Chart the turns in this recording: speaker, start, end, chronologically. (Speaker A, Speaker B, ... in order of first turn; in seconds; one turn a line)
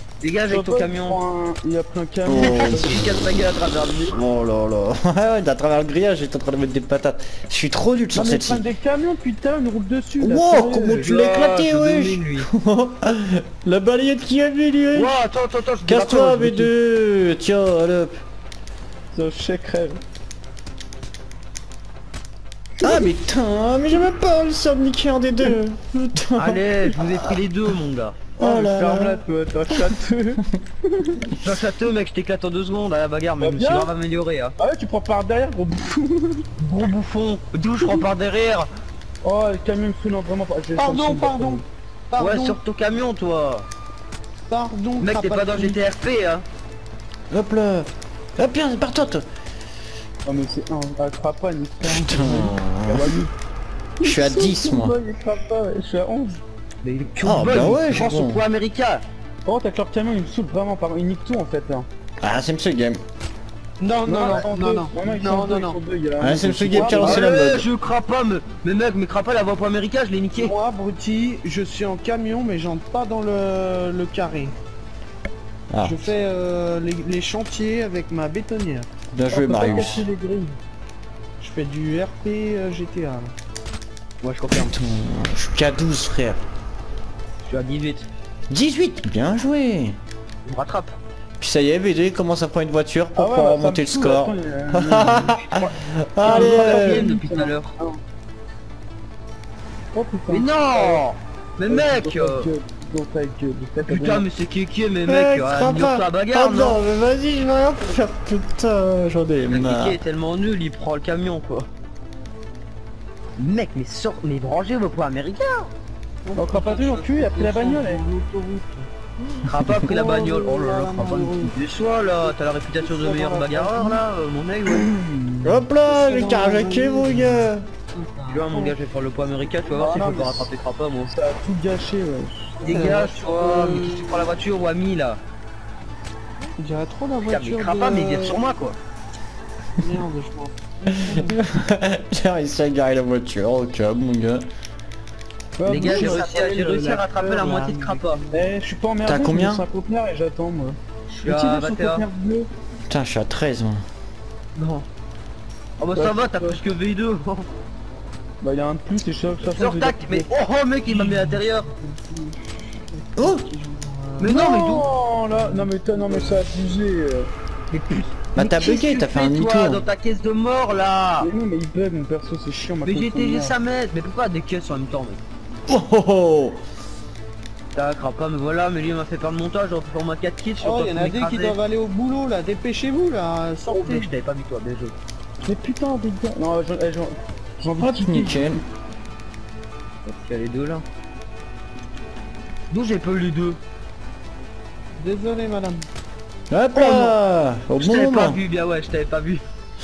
Speaker A: 0.2-1.2
Speaker B: 0.5-3.1
Speaker C: 2.2-3.0
Speaker A: 2.3-4.2
Speaker C: 4.1-8.6
Speaker B: 8.1-11.5
Speaker C: 10.2-15.1
Speaker A: 10.9-12.5
Speaker A: 14.9-16.7
Speaker C: 15.8-18.2
Speaker B: 19.1-20.0
Speaker B: 22.8-23.1
Speaker C: 22.8-27.1
Speaker A: 26.4-28.2
Speaker C: 28.4-29.2
Speaker B: 28.4-31.3
Speaker A: 31.4-34.5
Speaker B: 33.4-33.9
Speaker B: 34.6-36.5
Speaker A: 36.6-38.7
Speaker B: 39.2-41.6
Speaker D: 40.7-42.6
Speaker A: 42.2-43.6
Speaker D: 44.5-45.8
Speaker A: 45.0-46.4
Speaker C: 47.3-49.2
Speaker B: 50.2-53.3
Speaker C: 51.8-53.1
Speaker B: 54.0-56.4
Speaker C: 54.0-55.0
Speaker A: 56.8-59.0
Speaker C: 57.2-58.4
Speaker B: 59.5-61.9
Speaker C: 62.2-63.0
Speaker D: 63.8-65.8
Speaker B: 64.0-67.3
Speaker C: 66.2-67.7
Speaker A: 66.8-70.5
Speaker D: 70.3-74.5
Speaker C: 75.7-76.0
Speaker D: 75.8-78.9
Speaker C: 79.1-80.1
Speaker B: 79.3-80.6
Speaker D: 81.4-83.3
Speaker A: 84.2-84.7
Speaker C: 84.5-86.4
Speaker A: 87.4-88.1
Speaker C: 88.5-90.0
Speaker A: 90.4-91.0
Speaker C: 91.4-97.1
Speaker B: 93.2-98.0
Speaker A: 96.2-97.7
Speaker B: 99.9-101.0
Speaker A: 100.3-102.5
Speaker B: 101.7-104.3
Speaker A: 103.8-106.8
Speaker C: 105.1-110.0
Speaker A: 109.5-111.7
Speaker A: 113.4-115.7
Speaker D: 116.2-121.5
Speaker B: 116.3-118.0
Speaker A: 119.4-124.9
Speaker D: 122.8-124.0
Speaker B: 124.7-125.6
Speaker C: 125.4-127.7
Speaker D: 125.8-128.8
Speaker A: 128.3-131.1
Speaker B: 129.7-130.5
Speaker B: 131.1-132.7
Speaker D: 132.6-134.3
Speaker A: 132.6-135.2
Speaker D: 136.6-138.4
Speaker A: 137.2-138.8
Speaker D: 139.8-141.4
Speaker C: 140.9-144.5
Speaker B: 145.6-146.8
Speaker A: 145.7-148.2
Speaker D: 145.8-148.4
Speaker B: 148.3-152.5
Speaker C: 149.0-149.6
Speaker A: 151.2-152.0
Speaker C: 152.9-153.8
Speaker A: 154.6-154.8
Speaker A: 155.8-157.5
Speaker B: 155.9-156.6
Speaker B: 158.4-160.3
Speaker A: 159.5-161.7
Speaker D: 160.8-166.5
Speaker C: 163.2-163.4
Speaker A: 164.2-164.9
Speaker B: 164.2-167.3
Speaker A: 167.7-171.3
Speaker C: 168.3-169.8
Speaker B: 171.2-173.5
Speaker A: 172.8-175.2
Speaker C: 175.7-176.6
Speaker A: 177.7-181.5
Speaker D: 180.6-184.1
Speaker A: 183.7-185.0
Speaker B: 185.4-188.6
Speaker C: 187.8-188.6
Speaker A: 190.0-190.8
Speaker A: 192.7-193.6
Speaker D: 195.0-195.9
Speaker C: 196.5-198.4
Speaker A: 196.8-197.0
Speaker A: 197.8-199.4